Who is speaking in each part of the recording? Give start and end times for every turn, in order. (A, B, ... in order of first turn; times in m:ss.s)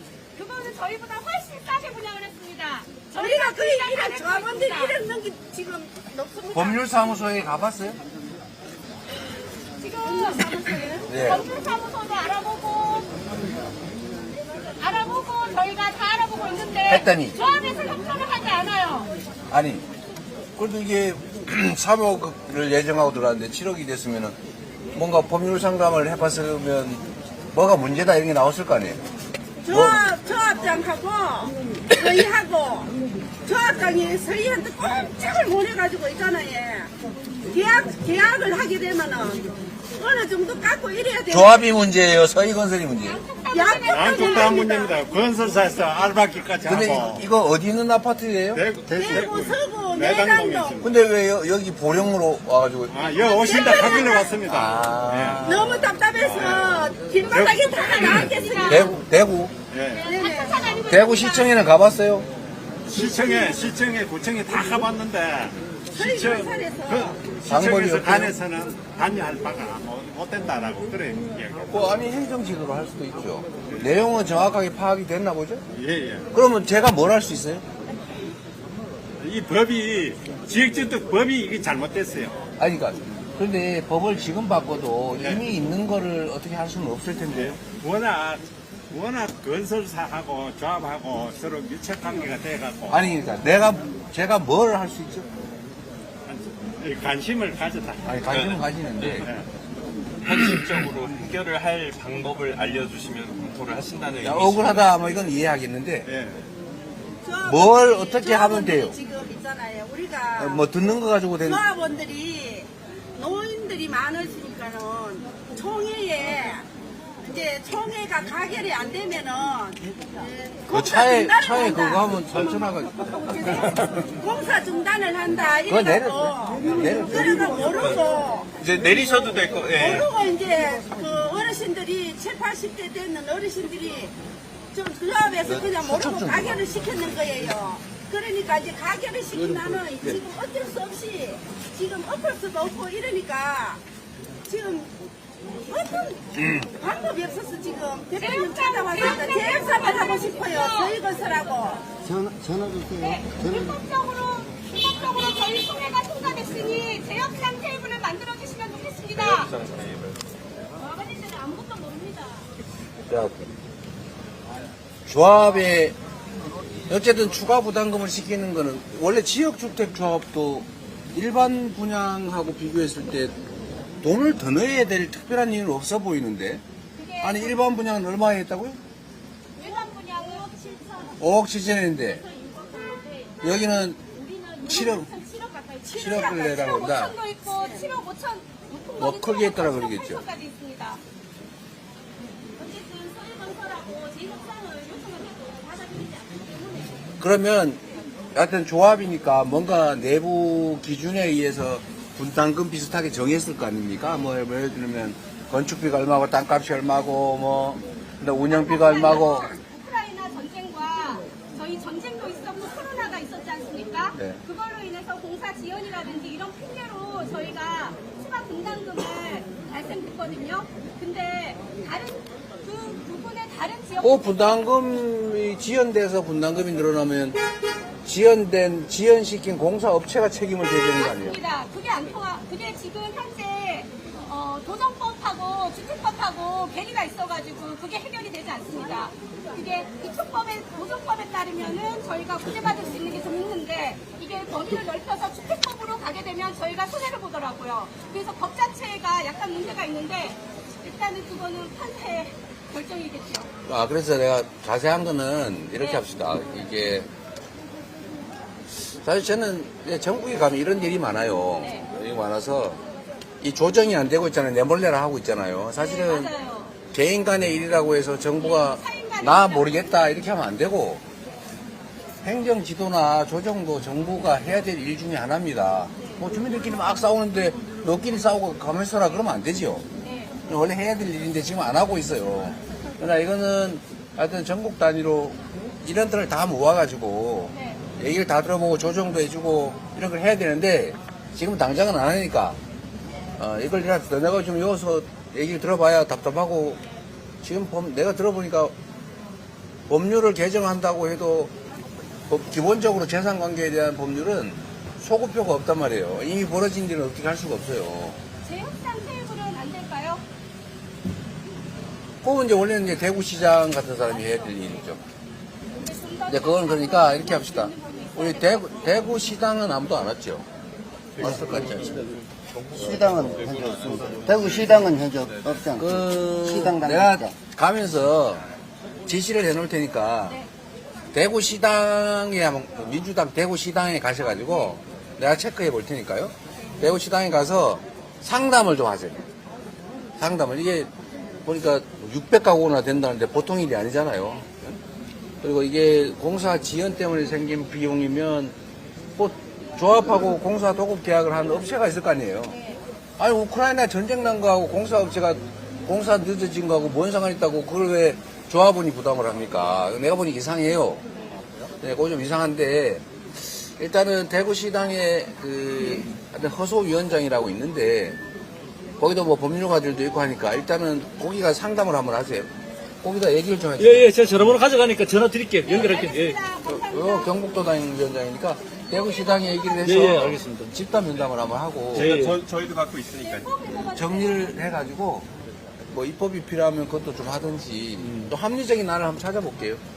0:00.3-0:04.9 A
0:03.1-0:06.9 B
0:06.5-0:08.0 C
0:09.8-0:13.1 A
0:10.0-0:11.1 B
0:11.1-0:11.4 C
0:14.8-0:19.1 A
0:16.9-0:17.4 C
0:19.5-0:19.8 C
0:20.6-0:24.4 C
0:24.9-0:29.0 C
0:29.6-0:32.9 B
0:29.7-0:30.0 C
0:33.4-0:36.9 B
0:37.4-0:41.6 B
0:41.3-0:43.2 C
0:43.0-0:44.6 A
0:43.5-0:45.0 B
0:43.9-0:47.2 D
0:46.6-0:48.6 C
0:48.5-0:50.9 D
0:48.9-0:50.8 B
0:50.8-0:53.0 C
0:52.9-0:55.5 D
0:53.2-0:54.4 B
0:54.5-0:55.8 C
0:55.4-0:59.0 B
0:56.2-0:58.2 D
0:57.8-0:58.9 A
0:58.6-0:59.5 C
0:59.7-1:00.1 D
0:59.9-1:01.6 A
1:00.0-1:00.7 B
1:00.9-1:02.3 C
1:02.9-1:11.9 D
1:02.9-1:03.6 B
1:05.9-1:07.2 B
1:07.5-1:08.3 C
1:11.7-1:15.6 C
1:15.7-1:16.3 D
1:16.3-1:17.6 C
1:19.2-1:22.4 D
1:22.6-1:27.6 C
1:25.2-1:25.4 D
1:27.3-1:33.1 D
1:32.9-1:35.3 C
1:36.2-1:38.2 D
1:38.0-1:39.3 C
1:38.3-1:39.3 E
1:39.2-1:39.5 D
1:40.2-1:44.9 E
1:44.2-1:46.1 C
1:46.0-1:46.5 D
1:47.2-1:50.7 B
1:47.4-1:49.0 C
1:50.4-1:51.6 C
1:51.4-1:56.6 B
1:57.2-2:08.5 B
2:00.7-2:03.9 C
2:05.7-2:07.4 C
2:07.6-2:08.0 E
2:08.6-2:10.1 E
2:09.7-2:14.1 B
2:14.7-2:23.8 B
2:15.4-2:16.6 C
2:19.4-2:20.2 C
2:24.5-2:24.9 B
2:25.7-2:31.8 B
2:26.3-2:26.7 C
2:28.2-2:31.0 A
2:32.1-2:32.8 F
2:33.0-2:39.5 A
2:39.1-2:40.2 E
2:40.8-2:42.5 A
2:43.1-2:43.3 C
2:45.1-2:45.9 C
2:46.9-2:53.3 C
2:54.0-2:56.6 C
2:56.9-2:57.6 A
2:57.2-2:58.8 C
2:59.6-3:01.2 A
3:01.2-3:02.2 C
3:02.5-3:11.0 A
3:03.4-3:04.0 C
3:04.6-3:05.1 C
3:05.9-3:07.2 C
3:09.0-3:10.2 C
3:12.6-3:17.0 A
3:17.2-3:17.8 C
3:18.3-3:29.5 C
3:28.5-3:44.8 A
3:44.0-3:47.4 C
3:48.0-3:51.4 C
3:50.6-4:13.5 A
4:13.6-4:17.1 C
4:18.7-4:22.8 C
4:21.6-4:21.8 A
4:23.4-4:26.3 C
4:25.8-4:26.7 A
4:26.9-4:31.0 C
4:28.4-4:30.0 A
4:32.2-4:39.8 C
4:40.0-4:40.3 A
4:40.5-4:52.6 C
4:47.5-4:47.8 A
4:53.4-4:56.8 C
4:57.4-4:58.7 C
4:59.9-5:01.5 C
5:02.3-5:08.2 C
5:08.4-5:10.2 A
5:12.2-5:15.0 C
5:14.2-5:14.5 A
5:15.8-5:18.9 A
5:16.3-5:20.4 C
5:21.2-5:22.0 C
5:22.7-5:25.0 E
5:22.8-5:25.7 F
5:25.7-5:28.4 C
5:26.6-5:27.0 F
5:29.0-5:30.4 C
5:31.1-5:39.2 C
5:40.2-5:40.9 C
5:41.4-5:44.8 C
5:45.4-5:48.5 C
5:49.2-5:52.6 C
5:53.2-6:01.0 C
6:01.8-6:08.2 C
6:09.0-6:12.5 C
6:13.0-6:14.5 C
6:13.8-6:16.4 G
6:15.6-6:17.5 A
6:16.7-6:22.1 C
6:18.9-6:20.3 A
6:19.8-6:20.7 G
6:21.9-6:23.5 E
6:21.9-6:22.3 G
6:23.2-6:24.6 A
6:23.9-6:25.3 C
6:25.9-6:29.8 C
6:28.0-6:28.3 G